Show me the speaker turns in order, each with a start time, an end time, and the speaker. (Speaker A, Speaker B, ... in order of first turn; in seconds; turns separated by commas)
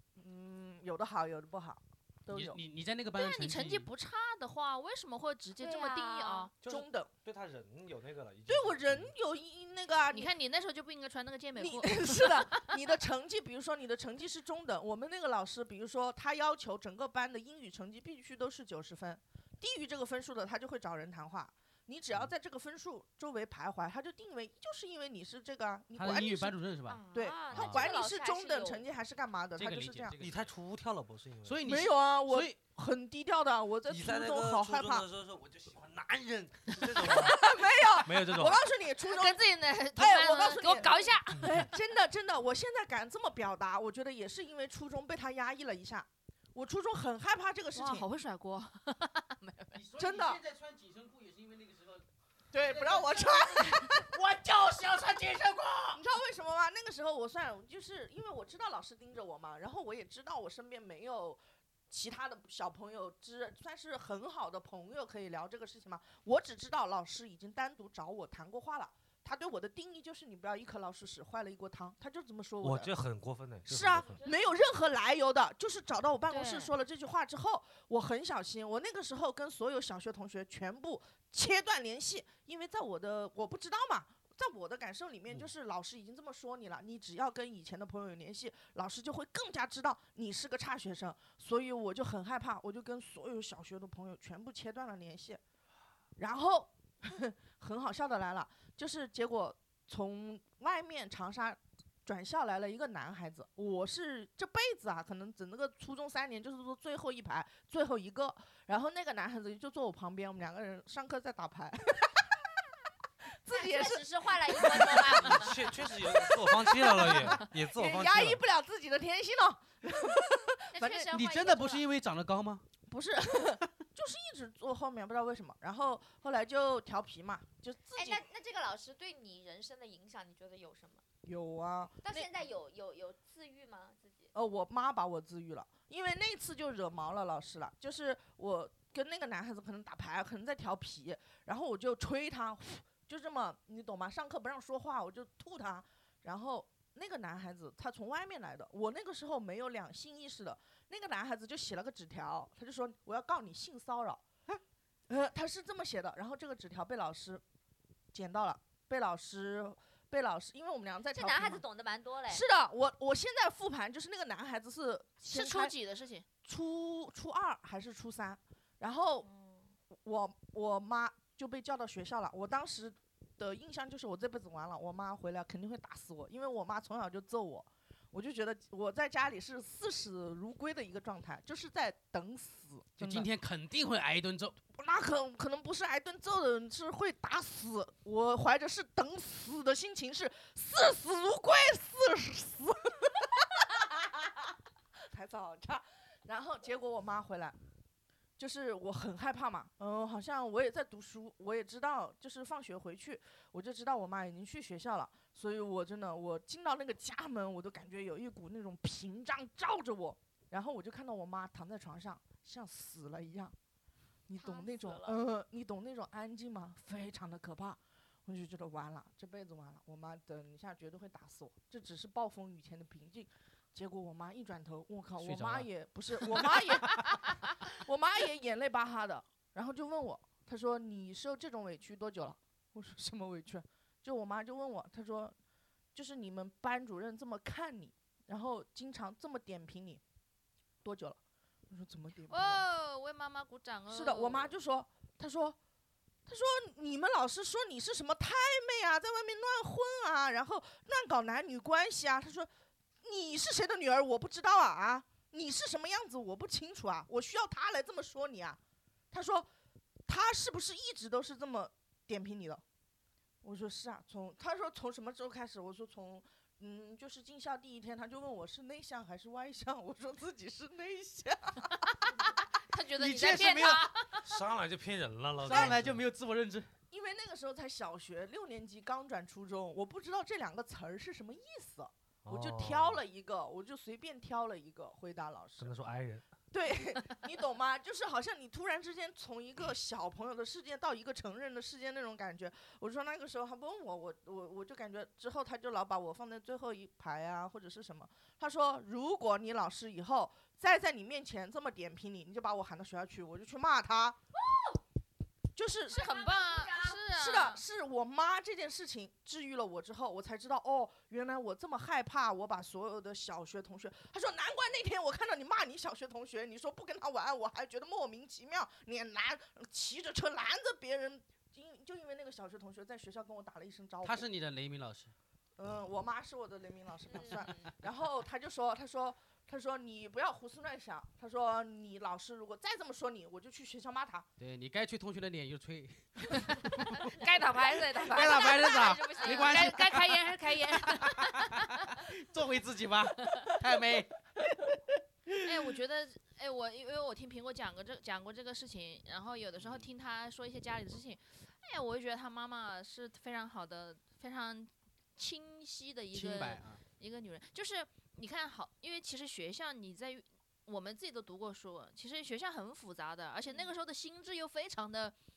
Speaker A: 0.1-2.6, Speaker B: 2.3-3.9, Speaker C: 3.1-6.5, Speaker D: 5.6-6.5, Speaker E: 6.6-9.1, Speaker A: 6.6-7.1, Speaker A: 8.5-10.3, Speaker C: 10.1-12.8, Speaker A: 11.6-26.6, Speaker B: 25.9-27.9, Speaker D: 26.9-28.8, Speaker A: 27.1-30.1, Speaker B: 29.6-30.5, Speaker E: 30.2-31.6, Speaker B: 31.4-32.6, Speaker A: 31.6-35.1, Speaker E: 33.9-38.6, Speaker A: 37.0-39.4, Speaker C: 39.0-41.5, Speaker A: 40.0-48.1, Speaker C: 47.7-49.8, Speaker B: 49.7-52.0, Speaker A: 50.0-50.4, Speaker A: 52.5-54.1, Speaker B: 52.6-56.0, Speaker A: 55.9-72.9, Speaker E: 72.6-74.2, Speaker A: 73.7-95.4, Speaker D: 74.0-74.7, Speaker D: 76.3-76.7, Speaker A: 96.2-112.3, Speaker A: 113.4-121.1, Speaker D: 113.5-115.6, Speaker E: 115.1-118.4, Speaker D: 120.7-121.8, Speaker B: 121.1-122.6, Speaker A: 122.9-128.2, Speaker D: 127.9-131.0, Speaker A: 131.2-132.3, Speaker D: 132.0-134.3, Speaker A: 134.3-157.4, Speaker A: 158.1-161.6, Speaker D: 161.1-162.4, Speaker A: 162.3-165.7, Speaker C: 165.2-166.2, Speaker A: 166.4-169.3, Speaker D: 169.2-169.7, Speaker A: 169.9-183.3, Speaker B: 183.0-184.6, Speaker A: 184.7-194.5, Speaker A: 195.1-197.6, Speaker A: 198.4-213.5, Speaker A: 214.3-235.3, Speaker D: 214.4-215.2, Speaker B: 225.2-225.7, Speaker A: 235.9-240.0, Speaker A: 240.8-242.6, Speaker C: 242.3-244.5, Speaker A: 243.9-245.6, Speaker A: 246.2-252.5, Speaker A: 253.0-258.6, Speaker A: 259.1-259.5, Speaker A: 260.1-262.6, Speaker A: 263.4-271.7, Speaker C: 271.9-274.3, Speaker B: 273.0-273.9, Speaker E: 274.2-276.0, Speaker A: 275.4-275.8, Speaker B: 275.4-276.7, Speaker A: 276.9-285.7, Speaker E: 282.2-283.0, Speaker E: 285.6-286.2, Speaker A: 286.5-304.2, Speaker D: 304.3-304.8, Speaker A: 305.5-306.0, Speaker D: 305.9-307.0, Speaker C: 305.9-307.6, Speaker A: 307.1-324.2, Speaker B: 324.0-325.1, Speaker A: 325.6-334.3, Speaker D: 327.1-327.7, Speaker B: 334.4-344.8, Speaker C: 336.3-342.1, Speaker D: 338.5-339.8, Speaker C: 343.2-343.6, Speaker C: 345.4-365.1, Speaker B: 349.6-349.9, Speaker B: 356.1-356.8